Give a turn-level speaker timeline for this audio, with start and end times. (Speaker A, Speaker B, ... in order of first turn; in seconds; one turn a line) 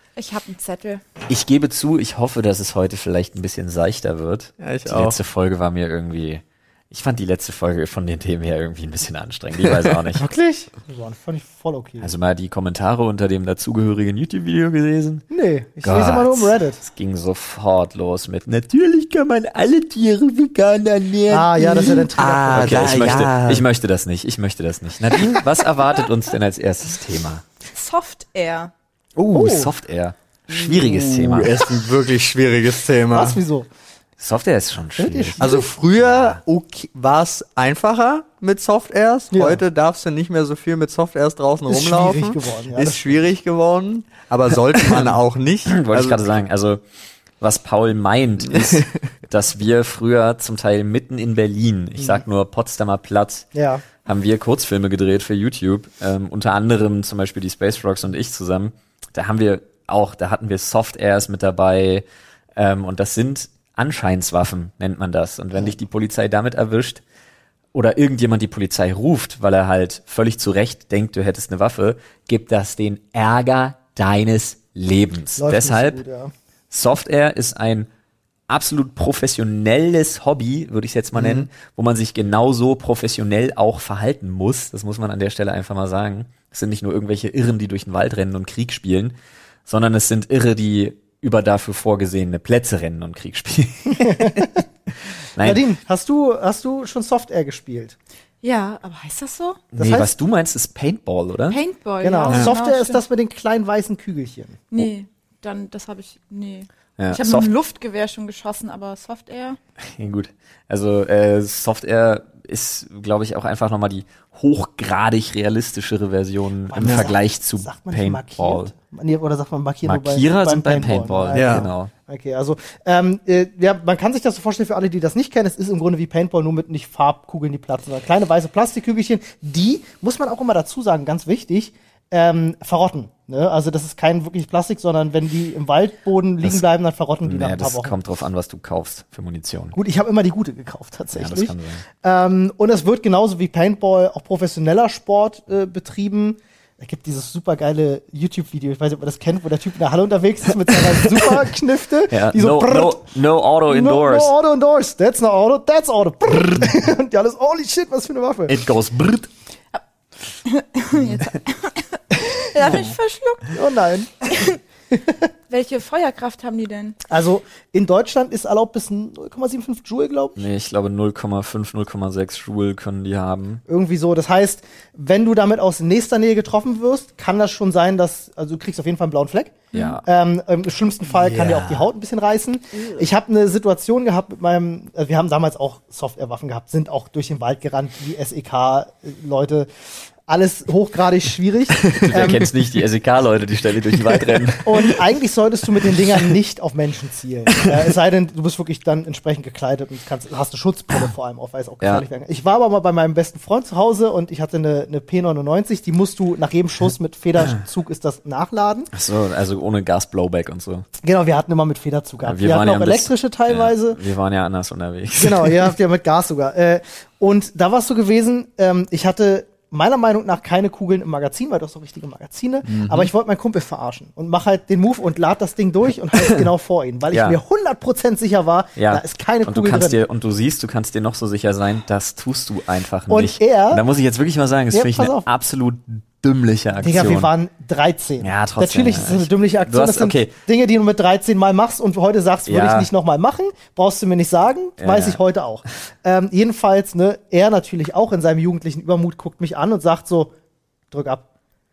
Speaker A: 0.2-1.0
Speaker B: 1.3-10.2
Speaker C: 4.6-5.2
Speaker D: 10.2-12.1
Speaker B: 12.0-15.2
Speaker D: 15.3-16.8
Speaker B: 15.8-27.4
Speaker D: 21.3-23.1
Speaker C: 22.2-23.6
Speaker A: 27.7-28.7
Speaker D: 29.2-29.7
Speaker B: 29.3-31.7
Speaker C: 30.5-33.4
Speaker D: 33.1-33.7
Speaker B: 34.2-36.4
Speaker D: 35.0-35.6
Speaker C: 35.4-46.2
Speaker D: 39.3-39.6
Speaker D: 41.7-43.2
Speaker B: 44.9-46.8
Speaker B: 47.4-62.0
Speaker C: 48.4-49.0
Speaker D: 52.0-52.2
Speaker D: 53.5-53.8
Speaker B: 62.5-67.0
Speaker B: 67.7-76.0
Speaker D: 75.4-76.3
Speaker B: 76.7-77.9
Speaker B: 78.5-94.6
Speaker C: 81.1-81.5
Speaker D: 93.9-94.6
Speaker B: 95.4-95.6
Speaker D: 95.4-98.0
Speaker A: 98.4-99.6
Speaker B: 99.7-101.6
Speaker D: 99.8-100.1
Speaker A: 101.5-103.0
Speaker D: 102.0-104.6
Speaker A: 104.7-109.6
Speaker B: 107.0-107.5
Speaker B: 109.8-118.7
Speaker D: 116.7-137.9
Speaker C: 116.8-117.1
Speaker B: 119.8-121.9
Speaker C: 121.3-121.7
Speaker B: 137.2-139.8
Speaker D: 139.7-153.1
Speaker B: 141.1-141.8
Speaker B: 150.9-151.3
Speaker B: 152.1-154.3
Speaker D: 153.7-158.6
Speaker B: 156.3-156.7
Speaker B: 158.5-159.3
Speaker A: 160.4-163.6
Speaker D: 163.5-164.1
Speaker A: 164.2-164.6
Speaker A: 165.5-167.0
Speaker D: 167.1-170.5
Speaker B: 170.3-173.6
Speaker D: 173.7-189.7
Speaker A: 179.7-180.0
Speaker B: 179.7-180.0
Speaker C: 181.1-181.9
Speaker D: 190.3-192.5
Speaker B: 192.0-195.0
Speaker D: 194.5-208.9
Speaker B: 208.9-210.8
Speaker D: 211.0-214.0
Speaker B: 212.2-215.7
Speaker D: 215.2-230.0
Speaker C: 222.7-223.1
Speaker B: 227.1-227.4
Speaker B: 228.8-237.3
Speaker D: 233.1-233.8
Speaker D: 234.7-235.3
Speaker D: 236.8-250.3
Speaker B: 238.2-240.3
Speaker B: 242.5-242.9
Speaker B: 244.8-245.2
Speaker D: 250.9-251.2